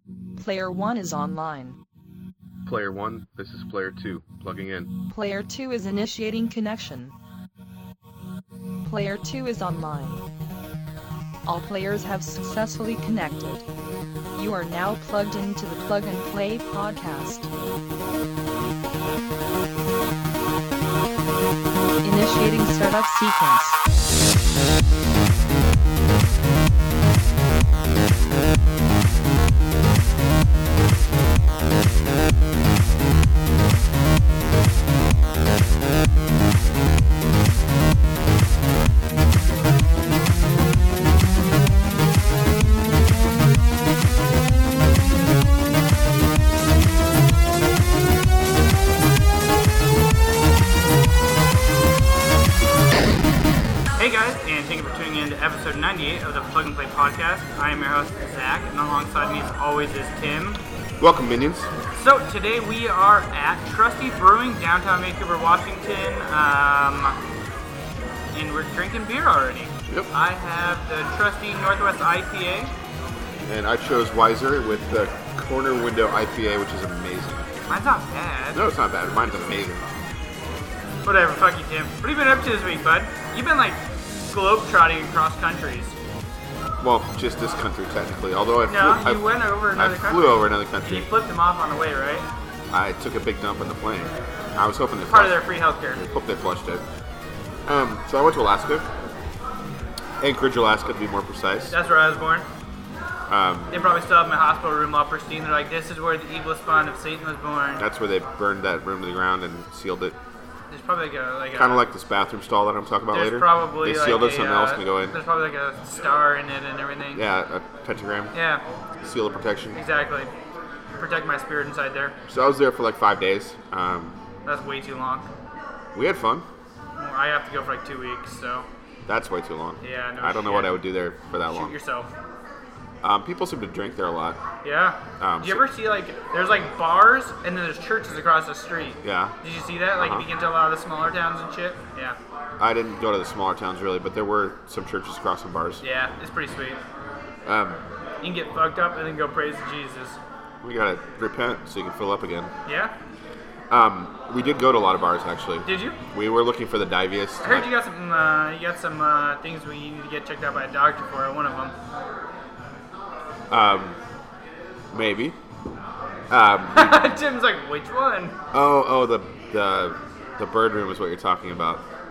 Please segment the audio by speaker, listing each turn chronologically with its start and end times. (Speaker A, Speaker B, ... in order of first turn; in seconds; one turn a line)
Speaker A: 0.4-1.8
Speaker B: 2.6-4.9
Speaker A: 5.1-7.1
Speaker A: 8.8-10.2
Speaker A: 11.5-13.7
Speaker A: 14.3-17.5
Speaker A: 22.0-23.8
Speaker C: 54.0-60.6
Speaker B: 61.0-61.7
Speaker C: 62.0-67.2
Speaker C: 68.3-72.7
Speaker B: 73.5-77.5
Speaker C: 77.7-78.6
Speaker B: 78.5-79.9
Speaker C: 81.0-86.0
Speaker B: 86.8-91.1
Speaker C: 88.7-92.3
Speaker B: 92.7-96.8
Speaker C: 95.1-96.0
Speaker B: 97.7-98.9
Speaker B: 100.2-101.8
Speaker C: 101.7-102.5
Speaker B: 103.3-103.8
Speaker C: 103.7-107.8
Speaker B: 107.8-110.2
Speaker C: 110.7-111.8
Speaker B: 111.5-115.2
Speaker C: 113.1-117.2
Speaker B: 117.1-118.3
Speaker C: 118.3-118.6
Speaker B: 119.0-119.8
Speaker C: 119.8-120.3
Speaker C: 121.0-122.2
Speaker B: 122.3-124.2
Speaker C: 124.5-125.3
Speaker B: 125.9-126.5
Speaker C: 127.0-128.7
Speaker B: 129.1-131.8
Speaker C: 129.8-130.8
Speaker C: 131.5-132.1
Speaker B: 133.0-134.4
Speaker C: 134.6-142.2
Speaker B: 135.2-135.7
Speaker B: 139.0-139.4
Speaker B: 140.0-140.3
Speaker B: 142.6-145.8
Speaker C: 145.8-146.8
Speaker B: 147.5-147.8
Speaker C: 148.2-150.2
Speaker B: 150.6-152.5
Speaker C: 152.7-152.9
Speaker B: 153.7-157.7
Speaker C: 155.7-156.0
Speaker C: 157.4-161.8
Speaker B: 163.5-164.0
Speaker B: 164.9-165.4
Speaker B: 166.3-167.1
Speaker C: 166.7-168.4
Speaker B: 168.5-171.8